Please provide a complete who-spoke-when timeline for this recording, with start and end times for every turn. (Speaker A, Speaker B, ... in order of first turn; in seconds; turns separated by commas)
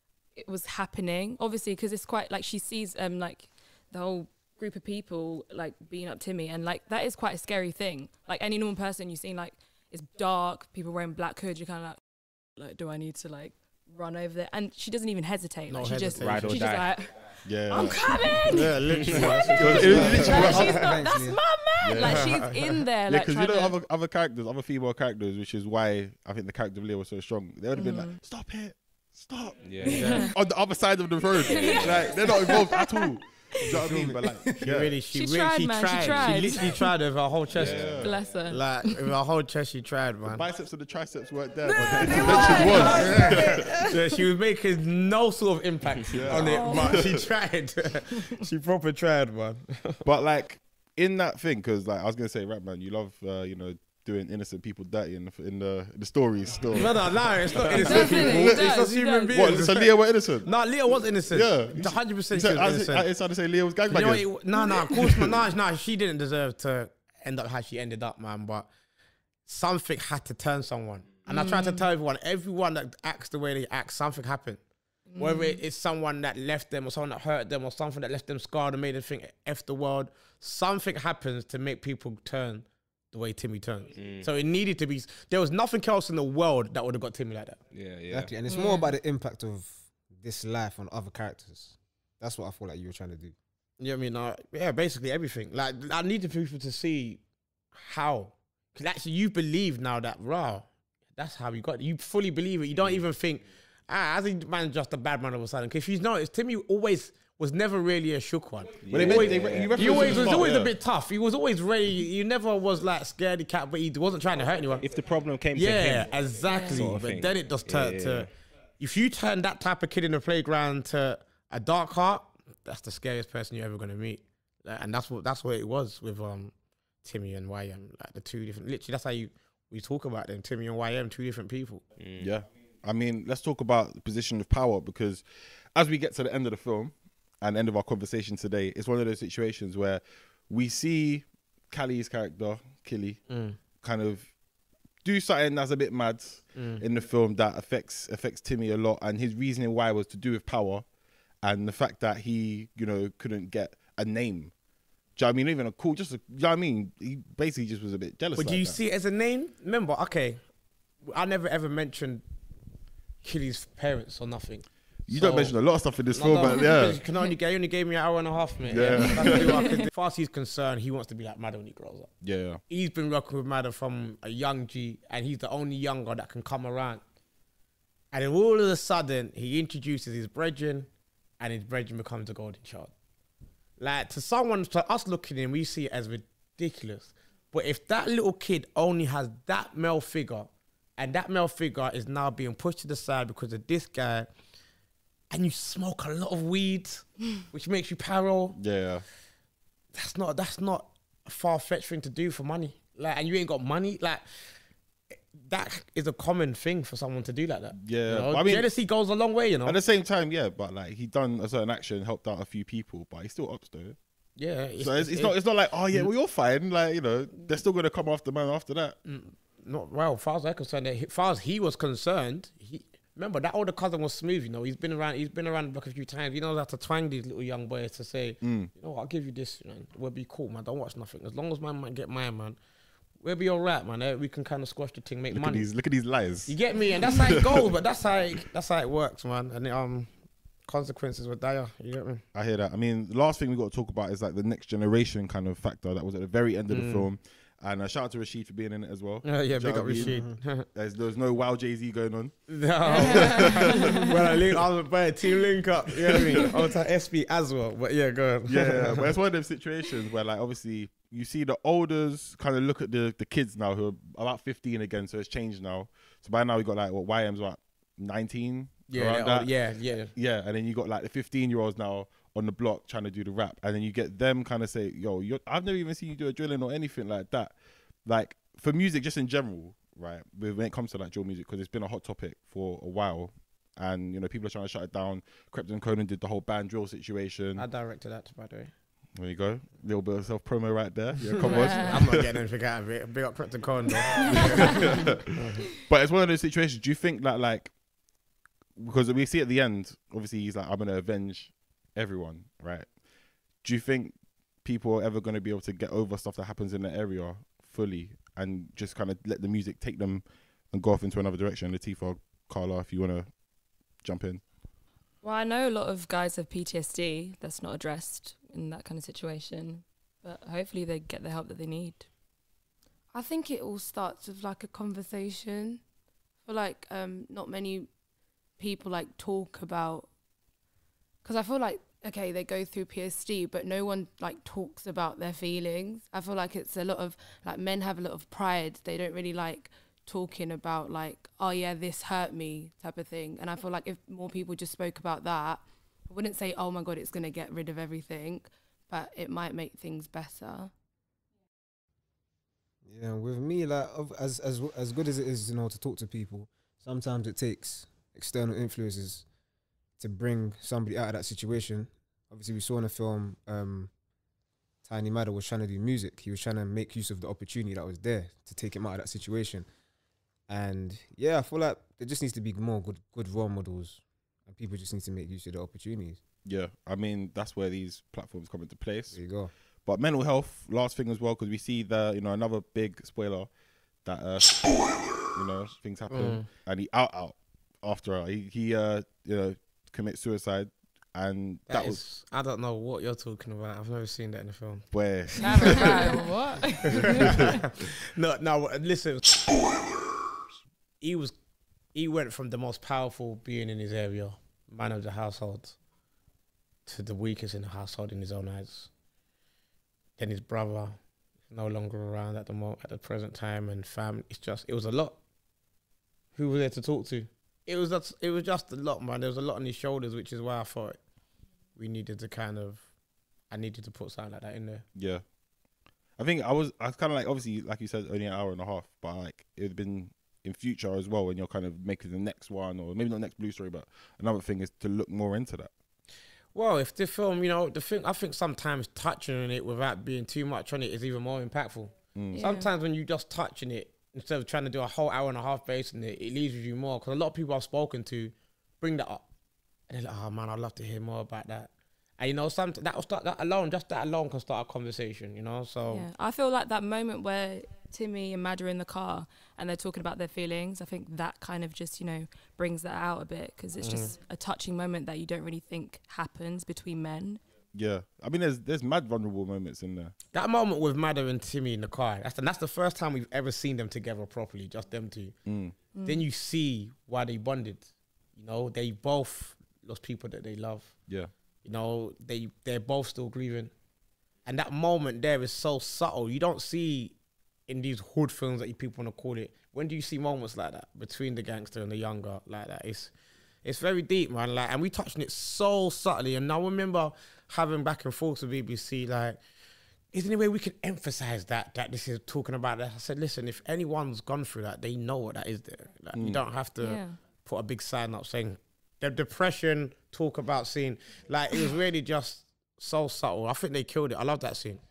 Speaker A: 0.3-12.0, Speaker A: 12.6-23.8, Speaker B: 15.7-16.6, Speaker C: 16.2-17.0, Speaker D: 17.4-20.8, Speaker B: 18.5-20.7, Speaker C: 18.9-19.9, Speaker E: 19.6-21.4, Speaker D: 21.8-22.4, Speaker B: 22.0-22.8, Speaker D: 23.1-34.9, Speaker A: 27.7-28.2, Speaker C: 29.6-30.3, Speaker A: 29.8-30.3, Speaker B: 29.9-30.3, Speaker A: 31.4-33.1, Speaker C: 31.5-32.1, Speaker E: 33.6-34.6, Speaker B: 34.6-40.4, Speaker A: 35.1-36.9, Speaker C: 36.1-36.4, Speaker C: 37.5-38.2, Speaker D: 37.5-38.2, Speaker A: 38.0-39.1, Speaker D: 40.2-43.6, Speaker A: 41.7-44.0, Speaker C: 42.1-42.6, Speaker E: 42.5-43.6, Speaker B: 42.7-50.0, Speaker C: 45.9-46.3, Speaker D: 46.1-47.2, Speaker A: 46.4-47.1, Speaker D: 50.0-58.8, Speaker B: 56.7-63.1, Speaker A: 57.8-59.6, Speaker D: 59.3-60.5, Speaker D: 61.3-64.3, Speaker B: 63.9-68.7, Speaker A: 64.5-64.9, Speaker D: 64.9-65.4, Speaker B: 69.5-74.6, Speaker A: 71.3-71.8, Speaker A: 75.1-75.6, Speaker B: 75.2-87.6, Speaker C: 84.0-84.3, Speaker C: 87.7-88.3, Speaker E: 88.1-93.3, Speaker A: 88.5-88.9, Speaker B: 93.8-97.2, Speaker B: 97.7-114.8, Speaker C: 108.8-110.3, Speaker D: 108.9-110.7, Speaker A: 109.9-110.3, Speaker C: 114.8-118.3, Speaker B: 115.5-126.5, Speaker A: 116.5-116.9, Speaker B: 127.0-131.8, Speaker C: 132.0-132.3, Speaker D: 132.2-143.2, Speaker B: 143.3-143.6, Speaker D: 143.8-144.3, Speaker D: 145.0-150.8, Speaker B: 146.5-146.8, Speaker D: 151.4-154.5, Speaker D: 155.2-158.8, Speaker B: 158.3-160.4, Speaker B: 161.0-162.2, Speaker B: 163.2-172.1, Speaker D: 165.1-167.0, Speaker D: 168.7-169.5, Speaker A: 169.2-169.9, Speaker D: 172.2-172.6, Speaker B: 172.7-177.0, Speaker B: 178.1-180.9, Speaker B: 181.4-182.9, Speaker B: 183.8-194.3, Speaker B: 195.3-198.6, Speaker D: 198.6-199.1, Speaker B: 199.9-204.6, Speaker B: 205.3-209.8, Speaker D: 207.7-208.7, Speaker D: 209.7-214.0, Speaker B: 214.3-215.3, Speaker D: 214.8-218.9, Speaker B: 219.0-232.6, Speaker D: 228.4-228.7, Speaker B: 233.2-235.7, Speaker D: 235.3-237.7, Speaker B: 236.5-240.1, Speaker B: 240.7-242.2, Speaker D: 242.3-254.1, Speaker B: 246.7-247.1, Speaker B: 249.2-250.7, Speaker E: 250.0-250.4, Speaker B: 252.5-259.1, Speaker A: 252.8-254.0, Speaker D: 256.1-256.5, Speaker D: 258.5-269.5, Speaker B: 268.9-270.1, Speaker D: 270.1-287.6, Speaker B: 287.6-288.7, Speaker D: 289.1-292.3, Speaker E: 291.4-291.6, Speaker A: 291.4-292.0, Speaker B: 291.6-295.7, Speaker D: 294.3-297.7, Speaker A: 294.3-294.9, Speaker D: 298.8-303.0, Speaker D: 303.6-313.3, Speaker D: 314.0-314.4, Speaker A: 315.2-322.1, Speaker A: 323.1-325.8, Speaker A: 326.4-327.9, Speaker A: 328.6-330.1, Speaker A: 331.2-350.7, Speaker E: 352.8-359.2, Speaker E: 360.0-363.9, Speaker E: 364.8-369.6, Speaker E: 370.5-376.2, Speaker D: 376.4-379.2, Speaker E: 379.1-379.5, Speaker D: 379.8-383.5, Speaker D: 384.0-392.0, Speaker B: 386.1-386.5, Speaker B: 391.7-396.3, Speaker D: 394.9-396.1, Speaker A: 395.4-397.5, Speaker B: 396.9-399.8, Speaker D: 396.9-397.6, Speaker B: 401.0-401.3, Speaker B: 401.9-405.8, Speaker B: 406.9-408.9, Speaker B: 410.2-411.0, Speaker B: 411.5-415.2, Speaker B: 416.3-421.0, Speaker B: 421.8-422.9, Speaker B: 423.5-424.9, Speaker D: 424.9-425.2, Speaker D: 426.2-435.7, Speaker B: 436.5-449.2, Speaker D: 442.1-442.4, Speaker A: 442.3-442.7, Speaker B: 449.9-456.1, Speaker A: 455.9-467.4, Speaker B: 463.8-464.1, Speaker D: 467.7-470.1, Speaker B: 470.3-475.4, Speaker D: 475.4-475.7, Speaker A: 475.9-476.2, Speaker B: 476.0-481.0, Speaker B: 481.6-483.7, Speaker B: 484.4-487.1, Speaker B: 487.7-493.1, Speaker B: 493.6-499.4, Speaker B: 500.1-514.8, Speaker D: 506.1-506.4, Speaker A: 506.8-507.2